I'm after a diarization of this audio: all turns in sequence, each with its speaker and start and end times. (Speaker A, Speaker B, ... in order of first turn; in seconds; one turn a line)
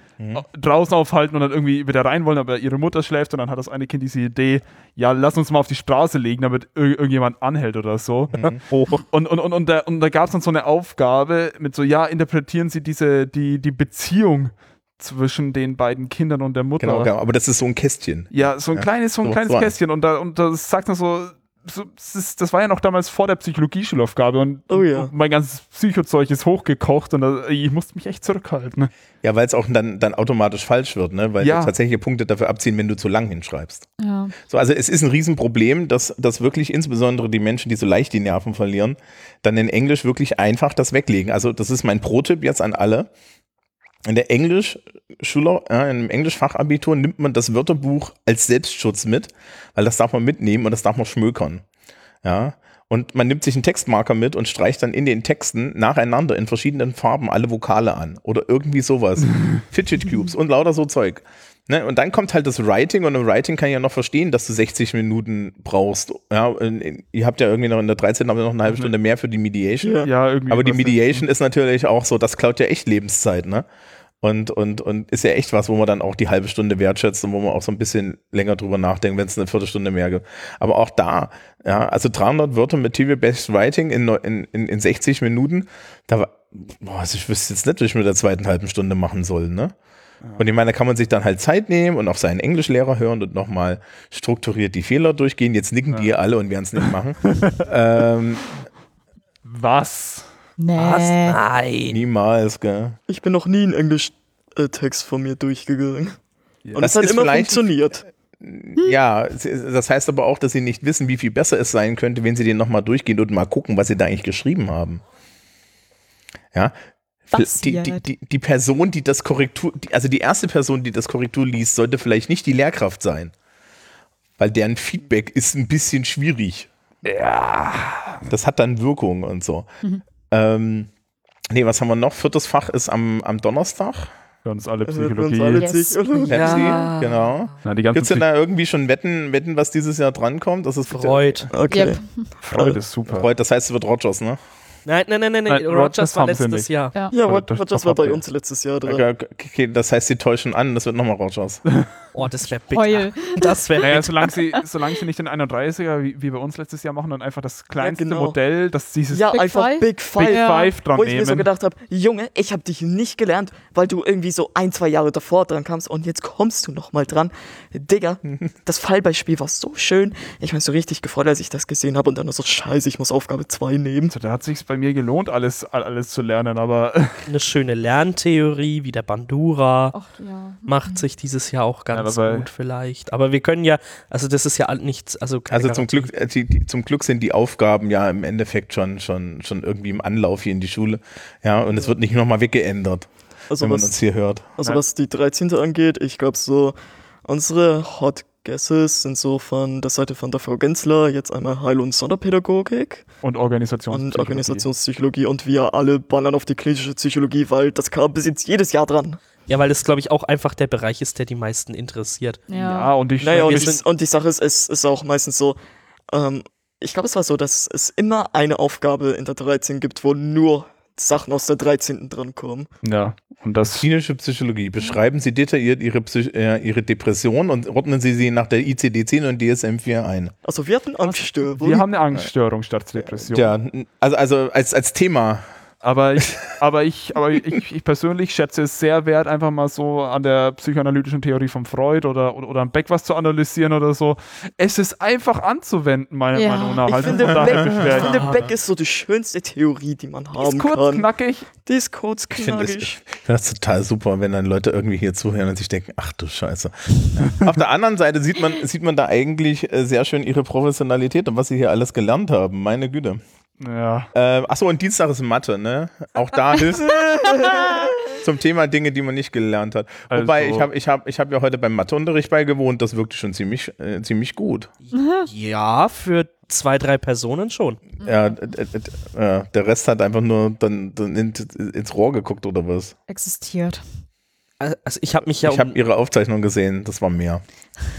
Speaker A: 0.2-0.4
Speaker B: 0.3-8.5
Speaker C: 8.7-9.0
Speaker B: 9.0-17.1
Speaker A: 16.8-19.7
Speaker B: 18.3-28.9
Speaker D: 24.7-25.1
Speaker A: 29.2-33.9
Speaker B: 31.4-31.7
Speaker E: 34.0-34.3
Speaker A: 34.4-43.1
Speaker A: 44.0-51.6
Speaker A: 52.2-73.6
Speaker D: 69.8-70.1
Speaker B: 70.0-71.2
Speaker A: 74.2-89.7
Speaker A: 90.4-98.6
Speaker B: 97.4-97.6
Speaker B: 99.4-100.3
Speaker E: 100.6-101.4
Speaker C: 100.7-102.0
Speaker A: 101.9-103.0
Speaker D: 103.1-106.2
Speaker D: 106.7-108.1
Speaker A: 106.8-107.7
Speaker A: 108.2-115.0
Speaker A: 117.3-123.3
Speaker E: 117.3-118.0
Speaker A: 124.4-126.7
Speaker B: 127.0-128.2
Speaker A: 128.3-129.7
Speaker A: 130.3-130.9
Speaker A: 131.5-134.1
Speaker B: 134.4-135.7
Speaker D: 134.8-136.8
Speaker E: 135.6-136.8
Speaker C: 136.3-137.5
Speaker A: 136.3-141.5
Speaker B: 137.6-138.3
Speaker C: 140.9-141.5
Speaker D: 141.5-142.8
Speaker E: 141.7-142.3
Speaker B: 142.4-143.3
Speaker A: 143.1-144.4
Speaker C: 144.8-146.9
Speaker B: 145.5-148.2
Speaker D: 147.1-149.0
Speaker A: 148.8-151.6
Speaker C: 152.1-154.3
Speaker E: 152.7-153.8
Speaker B: 153.8-159.3
Speaker D: 157.8-158.4
Speaker D: 159.1-174.1
Speaker E: 159.3-160.7
Speaker B: 160.1-161.5
Speaker B: 174.1-177.3
Speaker C: 177.2-186.1
Speaker E: 179.9-181.0
Speaker B: 181.9-182.5
Speaker A: 185.5-194.5
Speaker D: 193.5-194.0
Speaker D: 194.5-203.1
Speaker B: 203.2-204.7
Speaker D: 203.9-209.2
Speaker C: 209.5-212.4
Speaker E: 212.5-212.9
Speaker B: 212.5-213.7
Speaker D: 213.2-215.6
Speaker C: 213.5-213.8
Speaker D: 216.1-222.7
Speaker B: 222.8-223.8
Speaker A: 223.8-230.3
Speaker D: 230.4-231.9
Speaker B: 231.1-233.5
Speaker A: 233.0-235.4
Speaker B: 235.8-248.4
Speaker E: 246.3-247.0
Speaker D: 246.8-253.0
Speaker A: 247.4-248.5
Speaker B: 250.4-251.5
Speaker A: 252.3-263.2
Speaker B: 263.6-264.1
Speaker A: 264.1-274.7
Speaker B: 270.1-270.7
Speaker C: 274.8-277.8
Speaker E: 275.0-275.3
Speaker A: 278.0-282.9
Speaker E: 278.0-278.4
Speaker E: 283.1-284.0
Speaker C: 284.6-285.7
Speaker A: 285.4-287.4